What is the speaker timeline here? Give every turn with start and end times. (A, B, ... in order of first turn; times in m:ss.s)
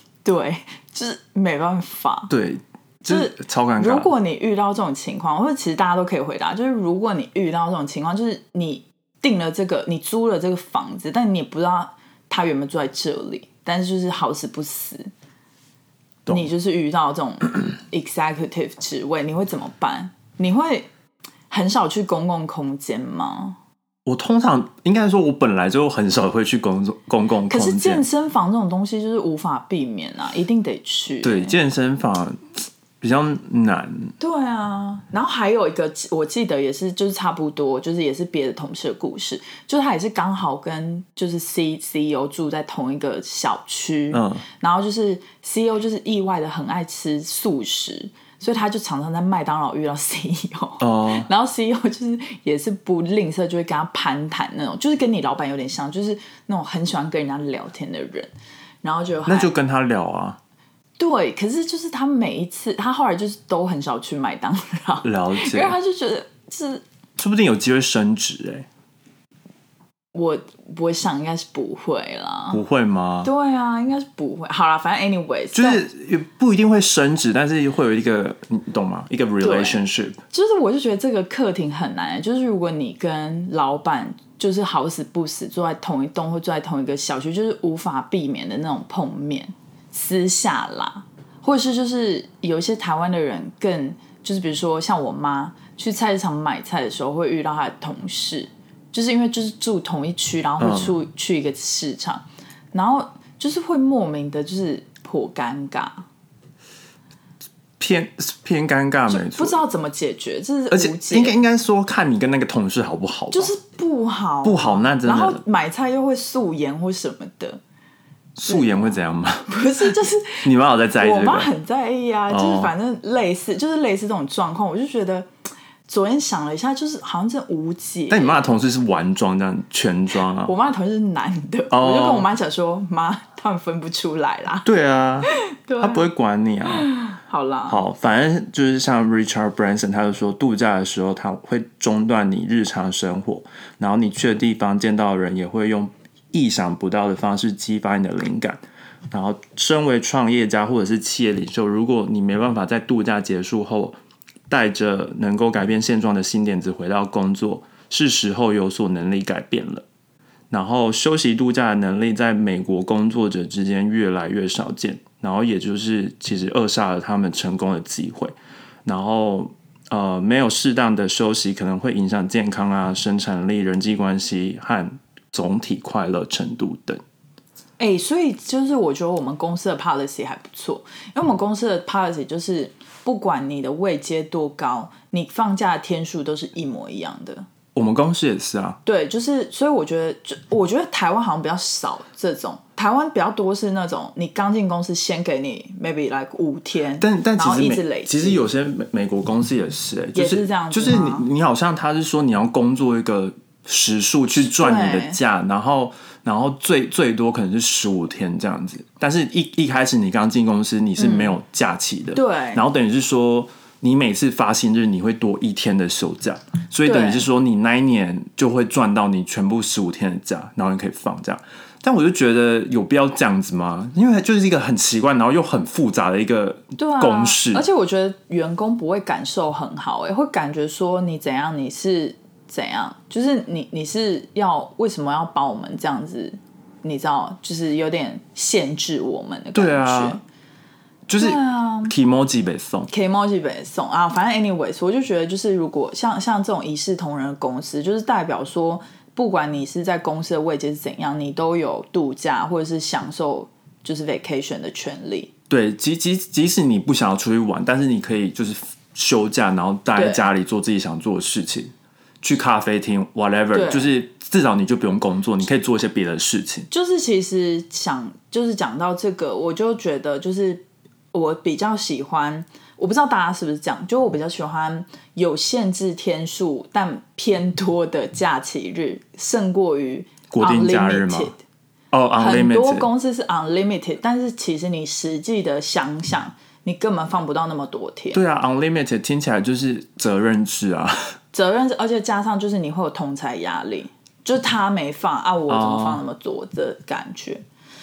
0:00.2-0:02.3 A
0:02.3-0:04.1 B
0:03.0-0:15.1 A
0:16.2-0:16.5 B
0:16.3-0:20.9 A
0:21.5-0:23.6 A
0:24.0-0:28.0 B
0:27.5-0:31.6 A
0:31.2-0:34.1 B
0:34.2-0:58.3 A
0:44.1-0:44.4 B
0:50.8-0:51.3 B
0:58.8-0:59.5 A
0:59.3-1:00.4 B
1:01.0-1:06.8 A
1:05.0-1:05.8 B
1:07.2-1:08.7 B
1:10.1-1:12.6 A
1:12.5-1:13.3 B
1:13.2-1:15.8 A
1:15.5-1:20.2 B
1:19.4-1:46.0 A
1:40.6-1:41.0 B
1:47.8-1:49.6 B
1:49.1-1:51.4 A
1:50.7-1:53.5 B
1:53.3-1:57.6 A
1:54.4-1:55.4 B
1:58.4-1:59.9 B
1:58.4-1:59.0 A
1:59.5-2:00.5 A
2:00.4-2:01.5 B
2:01.0-2:05.3 A
2:02.3-2:02.7 B
2:05.9-2:08.4 A
2:08.1-2:10.5 B
2:10.4-2:14.7 A
2:11.7-2:12.3 B
2:14.6-2:16.9 B
2:15.2-2:16.0 A
2:16.7-2:17.8 A
2:17.7-2:34.0 B
2:34.5-2:39.8 B
2:40.5-2:57.0 B
2:57.8-3:07.5 A
3:07.7-3:08.8 B
3:08.8-3:18.4 A
3:17.0-3:47.6 B
3:20.1-3:21.3 A
3:24.4-3:25.2 A
3:31.0-3:31.4 A
3:32.1-3:32.6 A
3:36.8-3:37.2 A
3:46.8-4:00.2 A
3:59.5-4:00.2 B
4:01.1-4:02.9 B
4:01.2-4:01.9 A
4:02.9-4:15.3 A
4:15.5-4:26.7 B
4:19.9-4:20.2 A
4:23.5-4:23.9 A
4:26.7-4:41.4 A
4:40.3-4:41.3 B
4:41.9-4:42.9 B
4:42.2-4:48.2 A
4:48.1-4:51.0 B
4:51.3-4:57.4 A
4:55.5-4:56.0 B